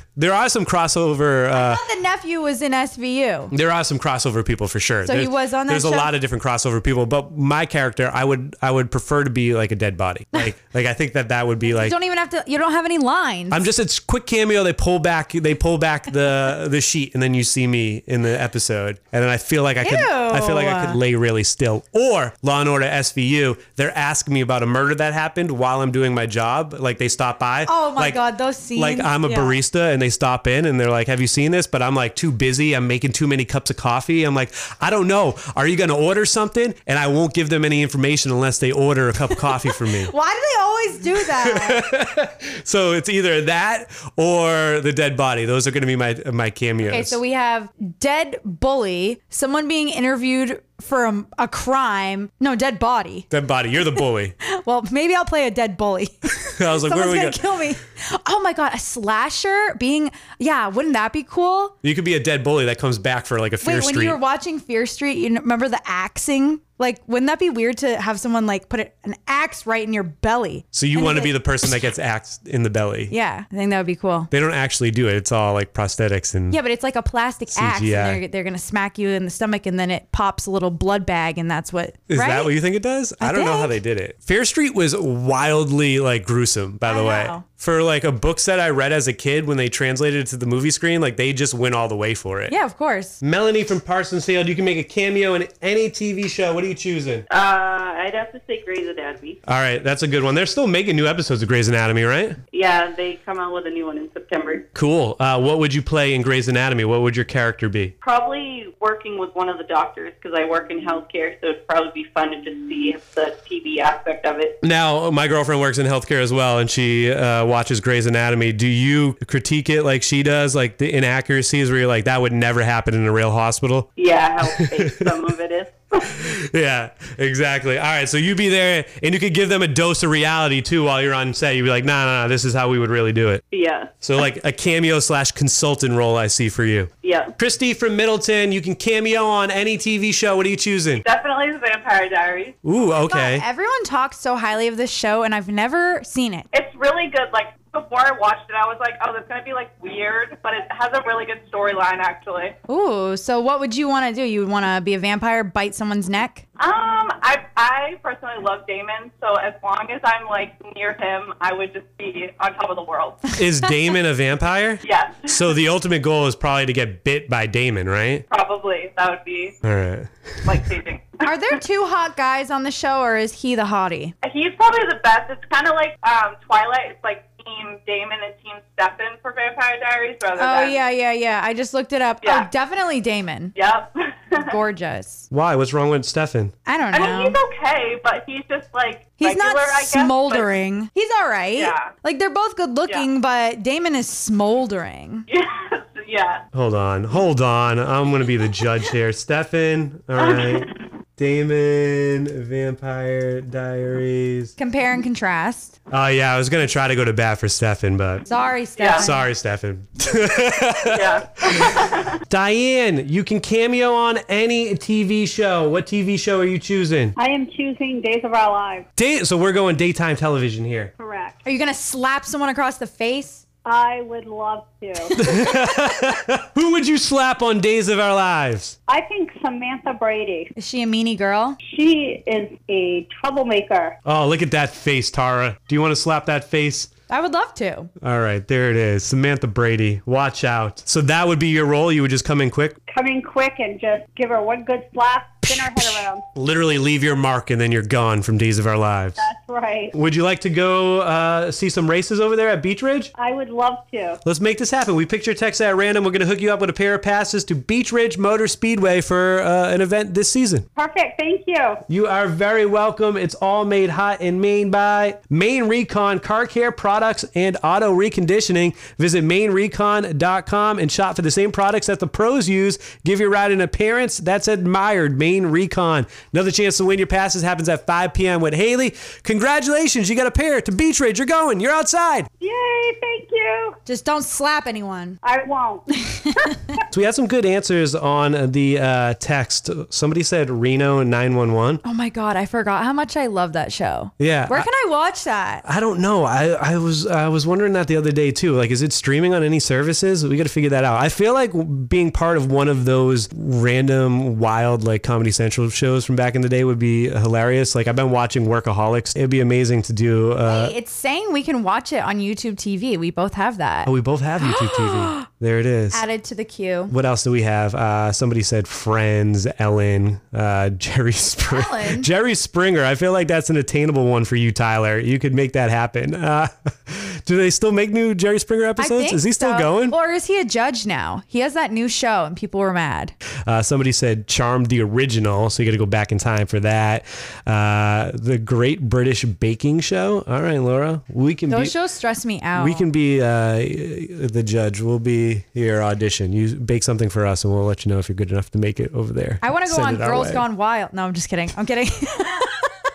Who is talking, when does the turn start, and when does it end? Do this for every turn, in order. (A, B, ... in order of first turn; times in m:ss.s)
0:00.2-0:01.8 A
0:01.5-0:03.5 B
0:03.5-0:12.0 A
0:05.0-0:06.1 B
0:11.6-0:13.6 B
0:13.5-0:28.2 A
0:19.8-0:21.0 B
0:27.6-0:29.6 B
0:28.7-0:40.1 A
0:39.6-0:41.8 B
0:41.1-0:47.2 A
0:46.9-0:53.3 B
0:53.3-0:54.3 A
0:54.4-1:01.7 B
0:56.4-0:57.4 A
1:01.8-1:04.2 A
1:03.6-1:11.4 B
1:10.7-1:13.1 A
1:13.1-1:14.3 B
1:14.3-1:16.6 A
1:16.5-1:22.5 B
1:17.5-1:18.2 A
1:22.1-1:32.5 A
1:23.2-1:23.7 B
1:26.8-1:27.4 B
1:32.5-1:33.2 B
1:33.2-1:37.2 A
1:37.3-1:39.4 C
1:39.5-1:42.4 A
1:42.5-1:44.6 C
1:44.7-1:47.9 A
1:48.0-1:54.6 C
1:54.6-2:03.9 A
2:04.0-2:06.1 C
2:04.4-2:05.2 A
2:06.1-2:13.4 A
2:13.5-2:13.9 C
2:14.0-2:21.0 A
2:17.0-2:17.3 C
2:21.0-2:22.6 C
2:22.6-2:23.4 A
2:23.1-2:26.4 B
2:26.5-2:32.6 C
2:32.7-2:36.4 B
2:36.6-2:43.3 C
2:43.4-2:48.2 A
2:44.8-2:45.4 C
2:48.3-2:49.6 C
2:49.6-2:50.6 A
2:50.4-2:51.2 C
2:51.2-2:54.1 B
2:54.2-3:00.8 C
3:00.4-3:03.5 B
3:02.2-3:02.5 C
3:03.6-3:04.5 C
3:04.4-3:05.3 B
3:05.3-3:06.5 A
3:06.6-3:07.4 B
3:06.9-3:10.5 C
3:09.2-3:15.2 B
3:11.6-3:11.9 C
3:15.3-3:16.4 C
3:16.5-3:24.5 A
3:20.2-3:20.8 C
3:24.6-3:25.7 B
3:25.9-3:28.3 A
3:28.3-3:29.2 B
3:28.8-3:29.1 C
3:28.9-3:37.1 A
3:30.8-3:32.2 C
3:37.2-3:38.8 D
3:39.0-3:40.9 A
3:41.0-3:41.4 D
3:41.4-3:43.4 B
3:43.6-3:45.2 D
3:45.2-3:48.7 A
3:48.9-3:50.5 D
3:50.6-3:51.6 B
3:51.6-3:53.9 D
3:54.0-3:56.9 A
3:57.1-3:57.9 B
3:58.0-4:02.8 A
4:02.9-4:06.2 D
4:05.5-4:09.2 A
4:09.2-4:09.9 D
4:09.9-4:13.1 A
4:13.2-4:14.2 D
4:14.2-4:20.6 A
4:20.8-4:21.8 D
4:21.9-4:42.3 A
4:42.4-4:43.8 D
4:43.8-4:45.2 B
4:45.2-4:45.9 D
4:46.0-4:46.6 B
4:46.9-4:51.8 A
4:51.8-4:55.6 B
4:54.2-4:54.7 A
4:55.6-5:10.7 A
5:10.4-5:13.9 B
5:13.8-5:16.0 A
5:14.4-5:15.2 B
5:15.9-5:16.9 B
5:16.9-5:29.9 A
5:21.5-5:22.1 B
5:28.8-5:33.1 B
5:33.4-5:41.7 A
5:41.5-5:42.9 B
5:42.5-5:50.4 A
5:49.4-5:52.7 B